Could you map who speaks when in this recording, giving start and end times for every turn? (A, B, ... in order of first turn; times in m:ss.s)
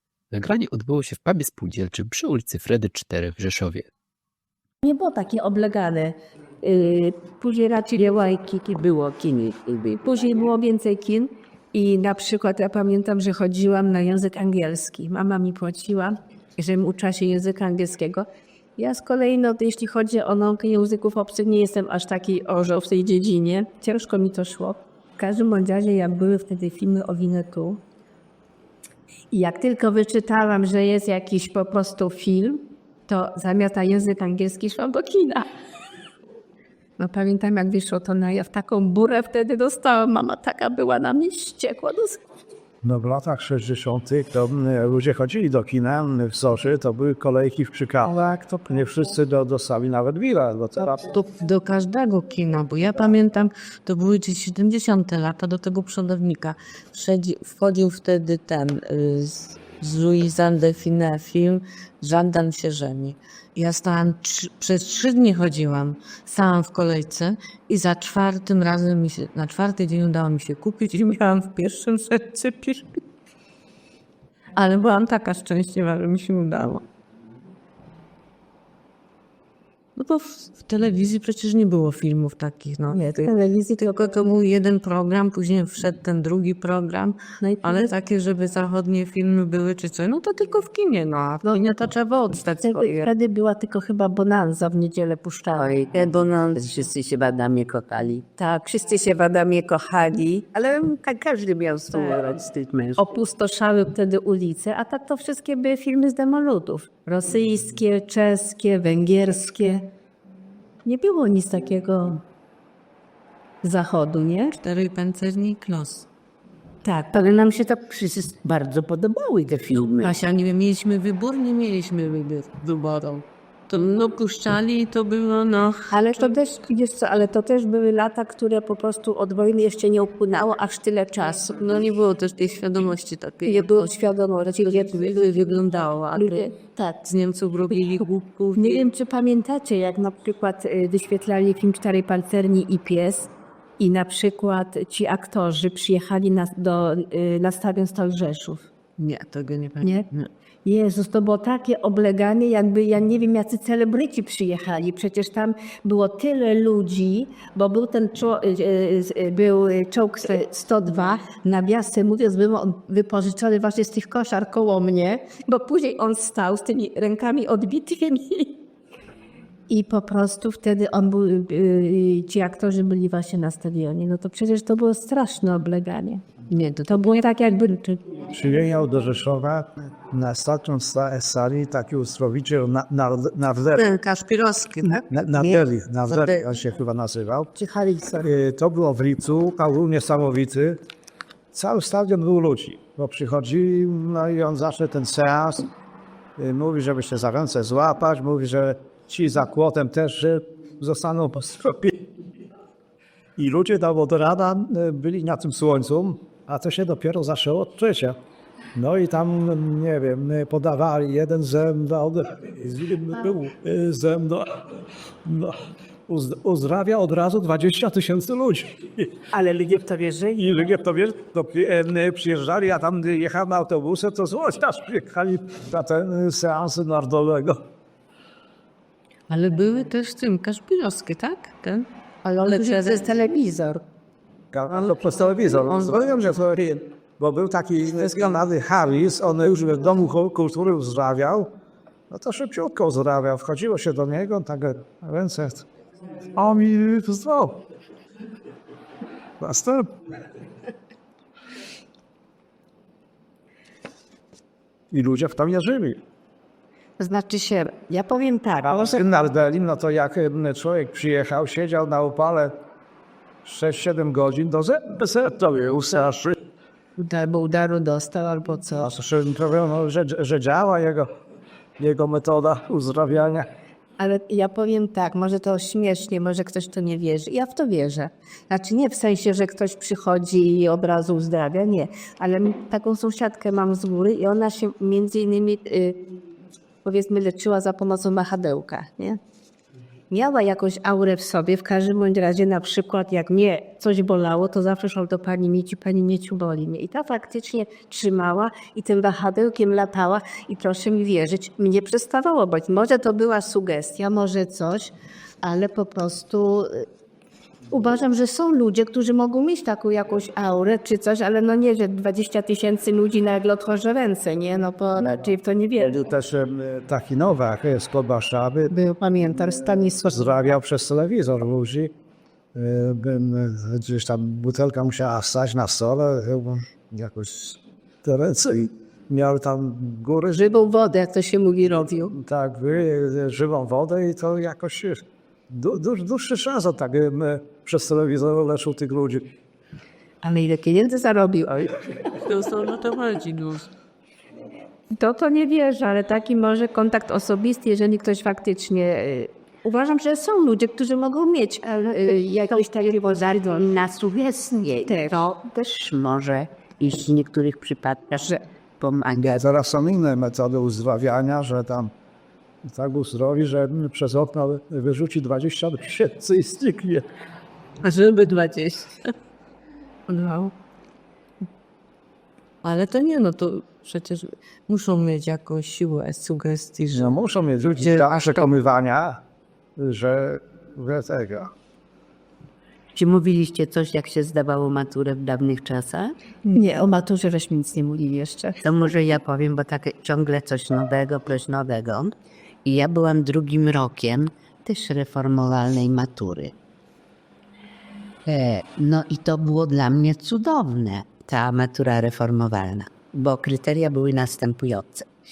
0:00.3-0:03.9 A
0:04.8-0:08.3 B
0:08.0-0:09.9 C
0:09.8-0:18.3 B
0:18.8-0:27.8 B
0:29.3-0:35.4 B
0:37.0-0:42.2 B
0:42.8-0:48.1 D
0:48.0-0:48.8 B
0:48.7-0:51.1 D
0:51.0-1:12.9 E
1:14.6-1:16.8 E
1:20.0-1:33.1 E
1:23.1-1:23.9 B
1:27.4-1:27.9 B
1:32.6-1:35.7 B
1:35.6-1:38.2 C
1:35.9-1:36.6 E
1:38.4-1:40.5 B
1:40.5-1:43.0 C
1:43.0-1:49.9 B
1:50.8-1:52.2 B
1:53.6-1:54.6 B
1:54.6-1:56.1 E
1:56.8-2:00.1 C
2:00.0-2:06.1 E
2:05.9-2:11.8 B
2:11.6-2:13.9 E
2:13.4-2:15.2 B
2:14.6-2:18.8 E
2:16.2-2:16.9 B
2:18.6-2:28.7 B
2:29.0-2:30.3 E
2:30.6-2:48.6 B
2:49.7-2:56.2 B
2:56.5-2:57.0 E
2:56.9-2:58.2 B
2:58.3-3:03.8 D
3:03.8-3:05.0 E
3:05.1-3:07.5 D
3:06.1-3:06.4 E
3:07.6-3:08.2 B
3:08.2-3:10.8 D
3:11.5-3:15.7 D
3:16.4-3:22.0 D
3:23.4-3:28.2 D
3:28.8-3:34.5 D
3:35.2-3:35.6 D
3:36.1-3:39.1 D
3:39.3-3:40.6 B
3:40.4-3:47.6 D
3:49.3-3:51.9 E
3:52.2-3:53.8 B
3:52.4-3:53.0 E
3:54.5-4:01.5 D
4:02.1-4:05.6 D
4:06.3-4:07.6 D
4:09.4-4:09.9 D
4:14.9-4:16.0 D
4:17.0-4:19.0 B
4:18.6-4:22.5 D
4:23.4-4:26.4 D
4:27.0-4:28.9 B
4:28.8-4:31.1 D
4:31.8-4:33.5 D
4:34.0-4:46.0 B
4:46.8-4:49.2 B
4:50.1-5:06.8 B
5:07.7-5:15.9 B
5:15.8-5:18.7 D
5:18.7-5:20.2 B
5:20.0-5:21.9 D
5:22.5-5:30.5 D
5:30.3-5:32.2 B
5:32.1-5:39.3 D
5:40.2-5:41.8 B
5:42.2-5:43.7 E
5:44.9-5:53.5 B
5:53.3-5:59.4 C
5:54.9-5:55.2 B
5:59.2-6:01.9 D
6:02.7-6:07.0 D
6:07.8-6:09.1 E
6:10.1-6:10.5 B
6:12.6-6:17.1 E
6:16.9-6:19.2 D
6:17.8-6:18.0 E
6:19.8-6:21.5 D
6:22.9-6:26.1 C
6:26.4-6:28.6 B
6:28.6-6:32.1 C
6:32.6-6:36.5 C
6:38.3-6:45.0 C